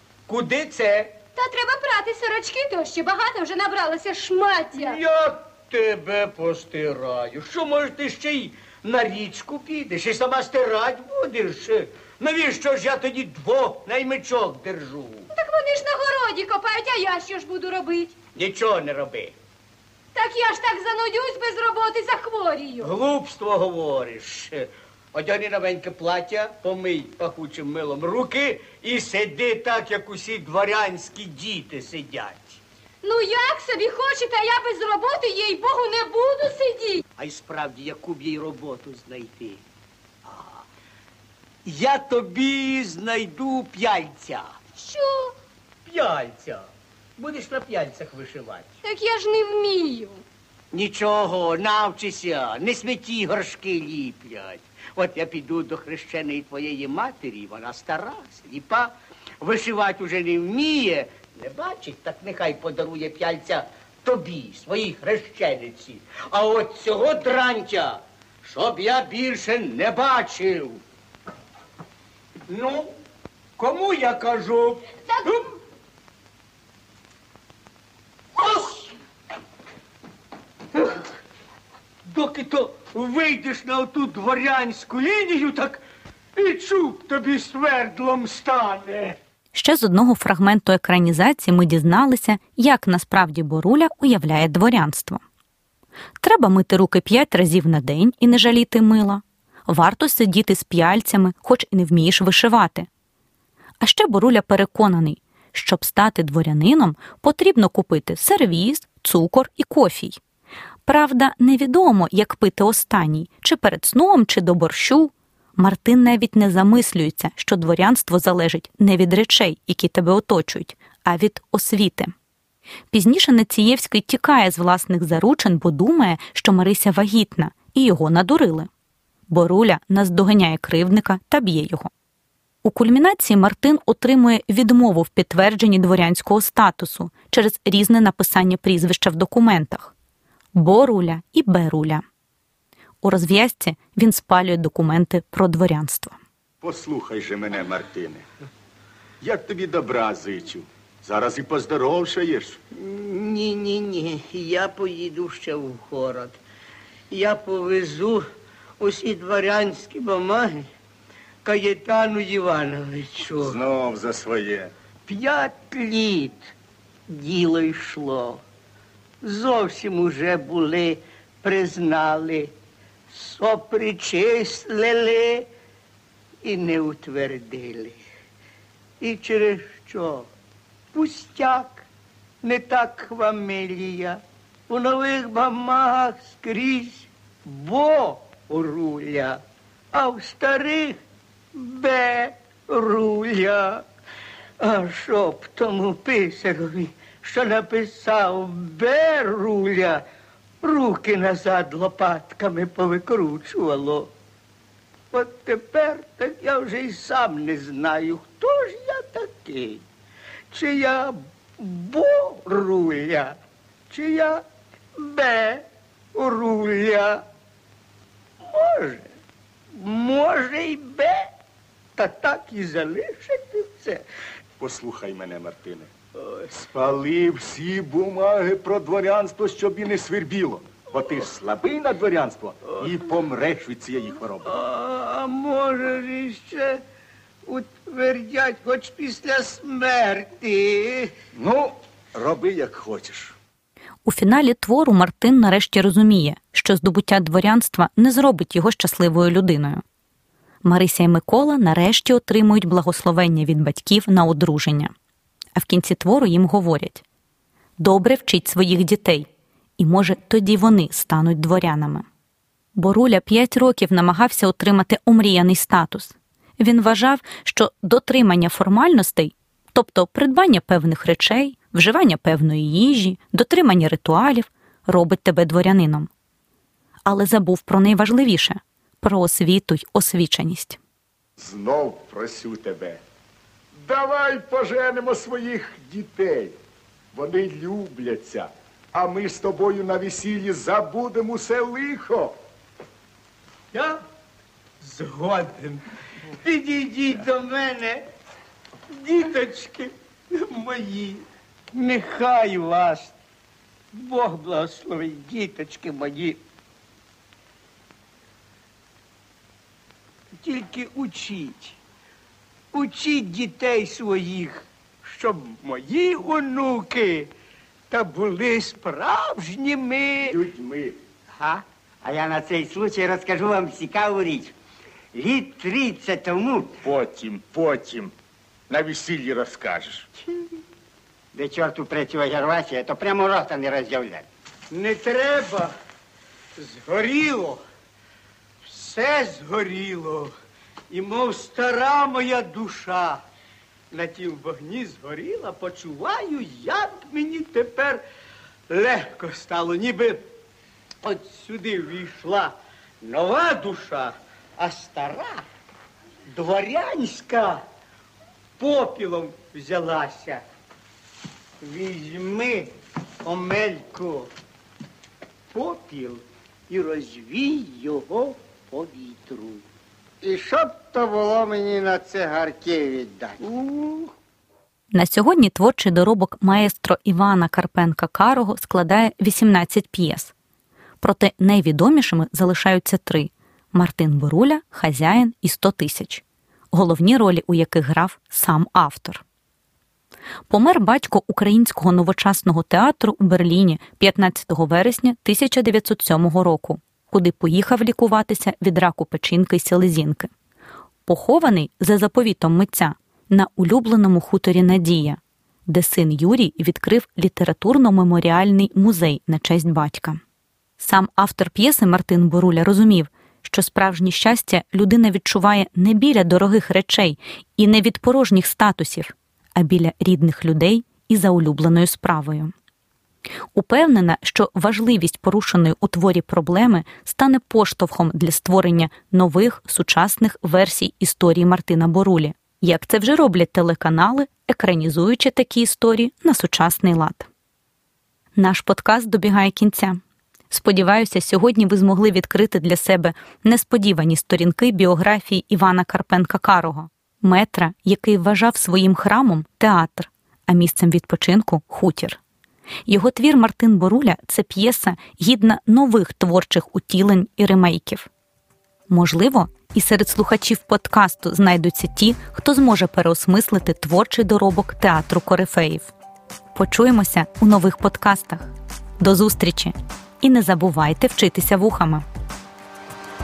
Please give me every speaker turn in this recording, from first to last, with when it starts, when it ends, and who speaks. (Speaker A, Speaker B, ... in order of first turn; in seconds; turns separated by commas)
Speaker A: 0.3-1.1, Speaker B: 1.4-5.0, Speaker A: 4.7-15.3, Speaker B: 15.3-18.1, Speaker A: 18.3-19.3, Speaker B: 20.1-22.9, Speaker A: 22.8-32.6, Speaker B: 33.0-37.0, Speaker A: 37.2-39.6, Speaker A: 40.2-40.6, Speaker A: 41.6-44.5, Speaker B: 44.8-45.3, Speaker A: 45.9-48.7, Speaker B: 48.8-50.2, Speaker A: 50.7-70.8, Speaker A: 72.5-72.9, Speaker A: 73.6-75.5, Speaker A: 78.3-78.9, Speaker A: 80.7-81.0, Speaker A: 82.0-85.8, Speaker A: 86.3-89.2, Speaker C: 89.5-95.2, Speaker C: 96.2-102.9, Speaker C: 103.8-110.2, Speaker C: 110.8-122.1, Speaker C: 122.9-128.7, Speaker C: 129.3-131.9, Speaker C: 132.6-139.9, Speaker C: 140.5-142.0, Speaker C: 143.0-146.2, Speaker D: 146.6-148.2, Speaker D: 149.2-152.6, Speaker A: 152.7-156.4, Speaker A: 157.1-158.2, Speaker A: 158.8-160.7, Speaker A: 161.4-163.6, Speaker D: 163.4-164.7, Speaker A: 165.1-166.5, Speaker A: 167.1-168.4, Speaker A: 169.2-172.5, Speaker A: 173.1-175.5, Speaker A: 176.4-178.0, Speaker A: 179.0-180.3, Speaker A: 180.9-181.8, Speaker A: 182.4-189.4, Speaker A: 189.9-191.0, Speaker A: 191.5-193.8, Speaker A: 194.6-200.0, Speaker A: 200.6-204.1, Speaker A: 205.1-209.8, Speaker A: 210.5-213.3, Speaker A: 213.9-214.4, Speaker A: 215.0-217.2, Speaker A: 218.4-219.1, Speaker A: 219.7-221.3, Speaker A: 221.9-224.0, Speaker D: 224.6-225.9, Speaker A: 226.2-226.5, Speaker D: 226.5-234.5, Speaker A: 234.4-236.8, Speaker A: 237.4-241.1, Speaker D: 241.3-243.3, Speaker C: 244.0-249.8, Speaker C: 250.6-254.9, Speaker C: 255.5-257.0, Speaker C: 257.8-259.3, Speaker C: 259.8-262.1, Speaker C: 262.7-276.1, Speaker C: 277.1-280.8, Speaker D: 281.4-283.0, Speaker D: 283.7-286.6, Speaker D: 287.1-292.4, Speaker A: 293.7-294.0, Speaker A: 294.8-295.8, Speaker A: 296.4-298.0, Speaker A: 298.9-303.1, Speaker A: 303.9-306.4, Speaker A: 310.4-311.8, Speaker A: 312.7-317.3, Speaker A: 317.9-320.4, Speaker D: 320.2-320.9, Speaker E: 321.3-324.5, Speaker E: 325.1-326.8, Speaker D: 326.8-328.1, Speaker D: 328.7-330.1, Speaker E: 331.3-334.3, Speaker A: 334.7-335.7, Speaker A: 336.6-337.6, Speaker A: 338.6-340.3, Speaker A: 340.9-343.2, Speaker A: 343.9-348.0, Speaker A: 348.7-350.3, Speaker A: 351.0-355.4, Speaker A: 356.3-357.6, Speaker A: 358.6-360.4, Speaker A: 361.6-362.7, Speaker A: 363.2-364.3, Speaker A: 365.5-369.6, Speaker E: 370.2-373.4, Speaker A: 373.4-374.1, Speaker C: 374.9-380.3, Speaker C: 381.0-389.2, Speaker C: 390.5-400.3, Speaker C: 401.1-410.2, Speaker C: 410.8-422.5, Speaker C: 423.5-437.3, Speaker C: 438.4-440.0, Speaker C: 440.5-452.2, Speaker C: 452.9-458.1, Speaker C: 458.9-465.9, Speaker C: 466.5-472.0